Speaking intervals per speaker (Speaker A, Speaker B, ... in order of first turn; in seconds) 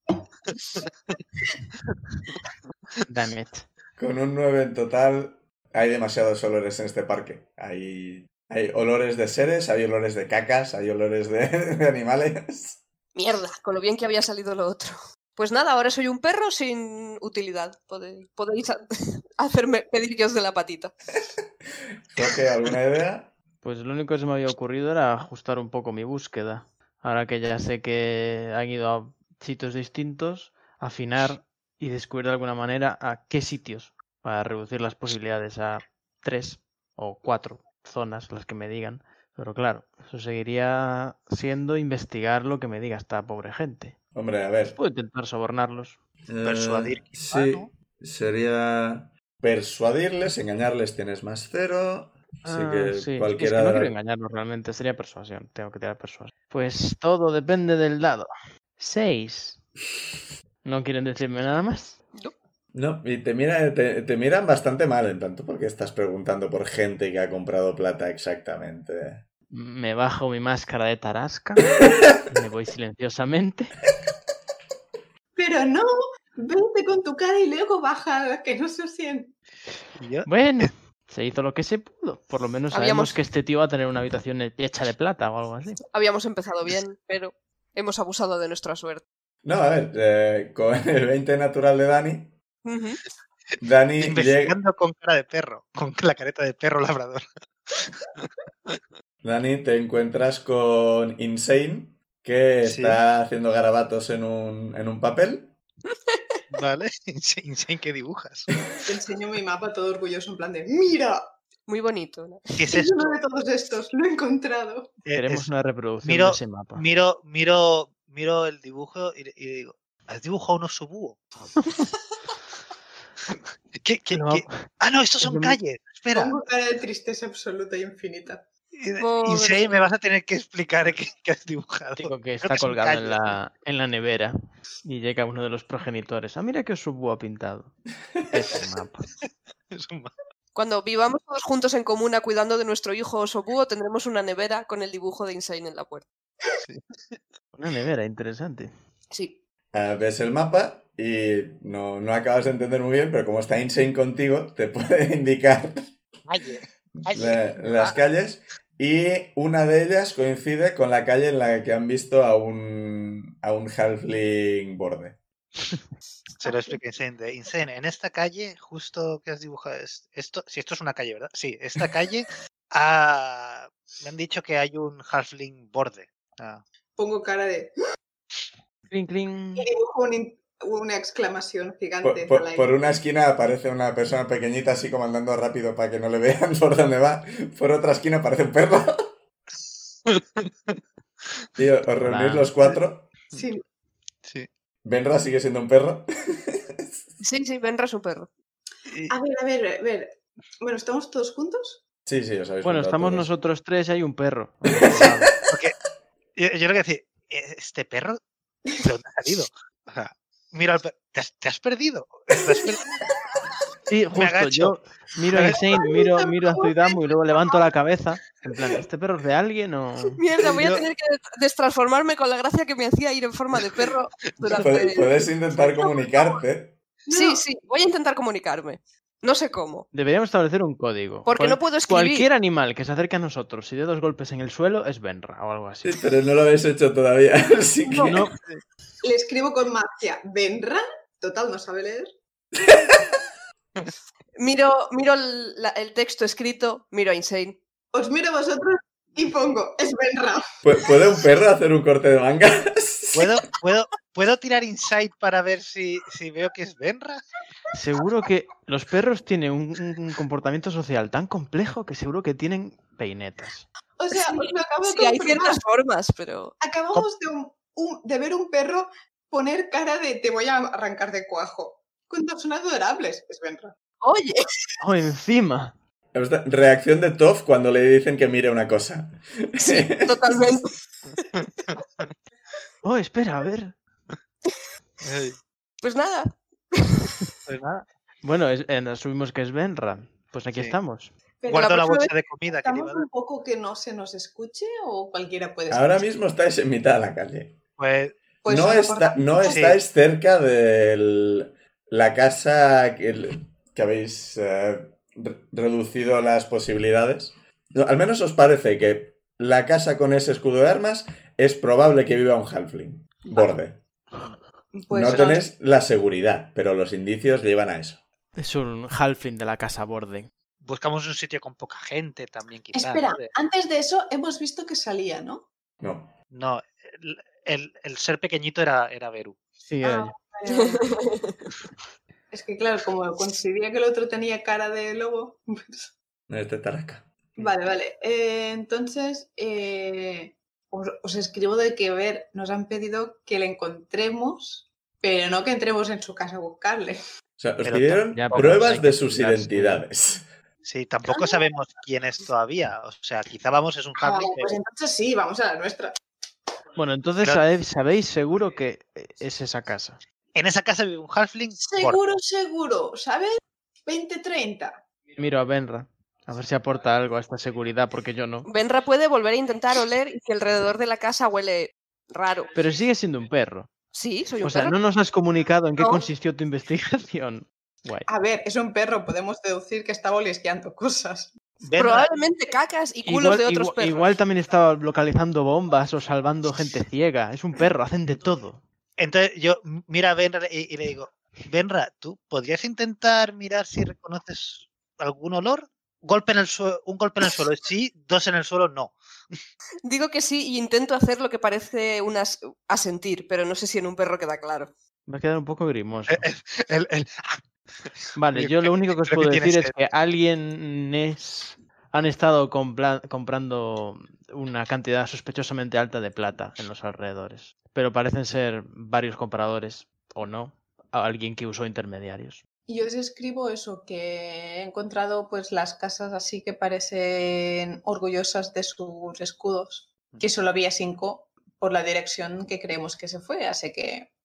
Speaker A: 0.5-1.2, 46.4-47.7, 80.0-80.7, 94.0-98.8, 102.7-103.0, 106.5-108.5, 112.6-113.0, 115.0-115.5, 116.0-121.3, 123.3-126.4, 128.8-133.4, 139.2-140.1, 146.6-147.2, 156.3-158.0, 166.4-176.6, 190.1-190.5, 198.9-199.1, 205.4-205.8, 206.4-208.2, 208.8-212.9, 214.2-214.7, 215.3-215.8, 220.4-220.8, 223.6-224.7, 253.2-257.2, 285.0-285.4, 287.5-287.9, 291.5-293.1, 297.8-298.2, 299.4-299.8, 320.6-323.3, 326.3-329.4, 347.6-348.6, 350.6-354.6, 360.4-362.1, 381.6-382.1, 389.0-399.4, 406.1-409.7
Speaker B: 3.1-3.7, 23.6-44.0, 44.7-46.0, 52.5-59.6, 60.6-62.0, 69.5-71.7, 72.3-73.8, 80.3-85.8, 115.1-116.8, 124.1-124.7, 125.2-125.6, 132.0-137.8, 138.3-139.1, 147.6-148.7, 178.9-179.7, 192.0-192.5, 202.6-205.3, 213.9-220.2, 229.9-235.9, 238.0-238.3, 257.7-263.7, 274.8-275.8, 282.8-283.8, 288.2-291.1, 318.4-320.3, 329.7-330.1, 348.1-349.9, 356.8-360.0, 365.2-368.5, 372.5-373.7, 374.4-378.1, 383.0-388.6, 405.1-406.3, 408.2-422.4
Speaker C: 4.0-12.8, 22.1-23.3, 44.1-44.8, 46.3-54.0, 62.7-69.2, 89.4-92.3, 93.6-94.6, 99.2-105.5, 149.7-155.9, 157.0-165.2, 182.0-188.9, 191.6-193.1, 194.8-197.0, 202.1-203.3, 204.7-205.1, 224.5-226.8, 235.8-238.2, 242.6-243.2, 250.6-253.3, 276.1-280.2, 295.7-297.6, 298.4-313.8, 314.9-318.0, 325.8-326.2, 336.3-337.1, 347.4-350.3
Speaker D: 13.2-18.8, 19.4-20.9, 82.7-83.2, 85.9-89.0, 92.7-93.0, 105.9-106.4, 111.7-112.6, 129.0-129.9, 140.6-146.1, 149.1-149.4, 197.2-198.3, 220.1-225.1, 227.1-229.9, 231.3-232.3, 244.4-247.6, 264.1-266.6, 274.0-274.5, 279.6-281.2, 285.8-287.1, 291.6-292.1, 330.5-331.4, 368.5-372.5, 373.9-374.8, 381.8-384.1, 399.9-404.7
Speaker E: 75.4-79.3, 108.9-111.2, 112.7-115.0, 126.1-128.4, 166.4-166.8, 177.0-177.7, 179.6-182.8, 193.3-193.6, 199.1-201.8, 215.7-217.6, 227.1-227.4, 239.0-242.1, 247.9-250.4, 264.0-265.6, 266.6-273.8, 291.4-292.0, 292.5-296.1, 298.4-299.6, 314.7-315.5, 322.7-325.4, 329.8-331.0, 332.3-335.9, 337.4-347.0, 351.1-351.4, 354.0-355.9, 361.6-363.3, 363.9-364.8, 378.1-381.3, 422.7-434.1